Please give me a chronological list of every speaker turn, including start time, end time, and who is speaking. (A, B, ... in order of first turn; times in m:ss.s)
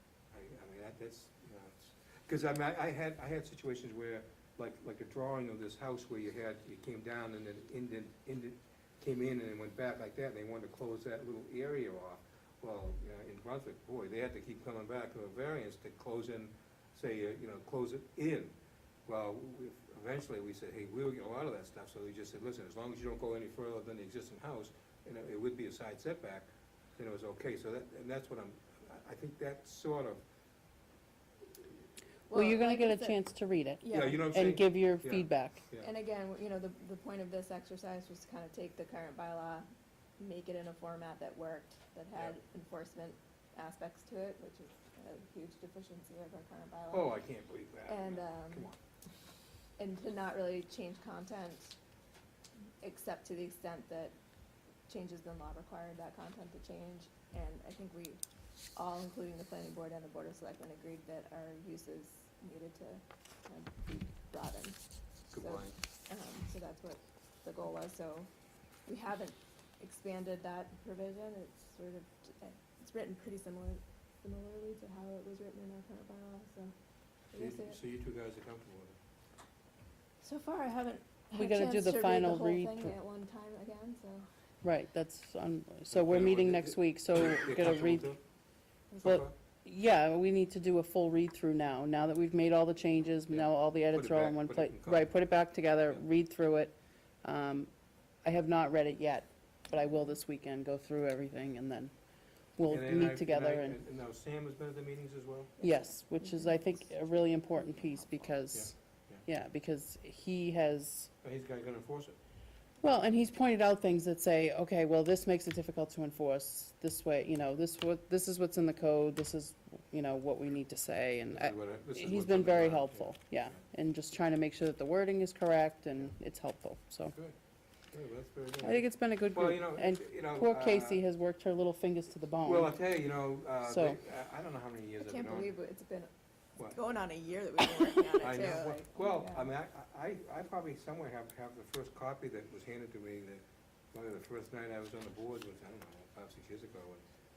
0:00.3-0:30.2 A
0:32.3-0:33.2 B
0:32.3-0:35.6 C
0:33.8-0:34.2 B
0:33.9-0:35.9 A
0:35.8-0:39.7 B
0:40.2-0:47.2 B
0:46.9-0:48.8 A
0:47.9-0:48.7 B
0:49.8-0:51.8 B
0:52.8-0:54.2 B
0:54.9-0:58.2 B
0:58.8-1:04.8 B
1:05.3-1:05.8 A
1:05.3-1:08.3 B
1:08.9-1:16.7 B
1:17.3-1:17.8 B
1:17.4-1:19.0 A
1:20.2-1:24.3 B
1:21.3-1:23.0 C
1:24.6-1:28.1 C
1:25.9-1:28.2 A
1:28.9-1:37.7 C
1:29.0-1:29.3 A
1:33.3-1:35.1 A
1:38.2-1:41.9 C
1:42.6-1:43.7 C
1:42.6-1:45.5 A
1:45.6-1:51.1 C
1:45.6-1:46.5 B
1:48.5-1:49.2 A
1:51.2-1:52.2 A
1:52.8-2:07.1 C
2:01.3-2:03.6 A
2:07.9-2:11.0 A
2:08.6-2:12.7 C
2:12.4-2:15.5 A
2:13.6-2:14.0 C
2:15.0-2:16.1 B
2:16.7-2:19.5 B
2:18.2-2:27.0 A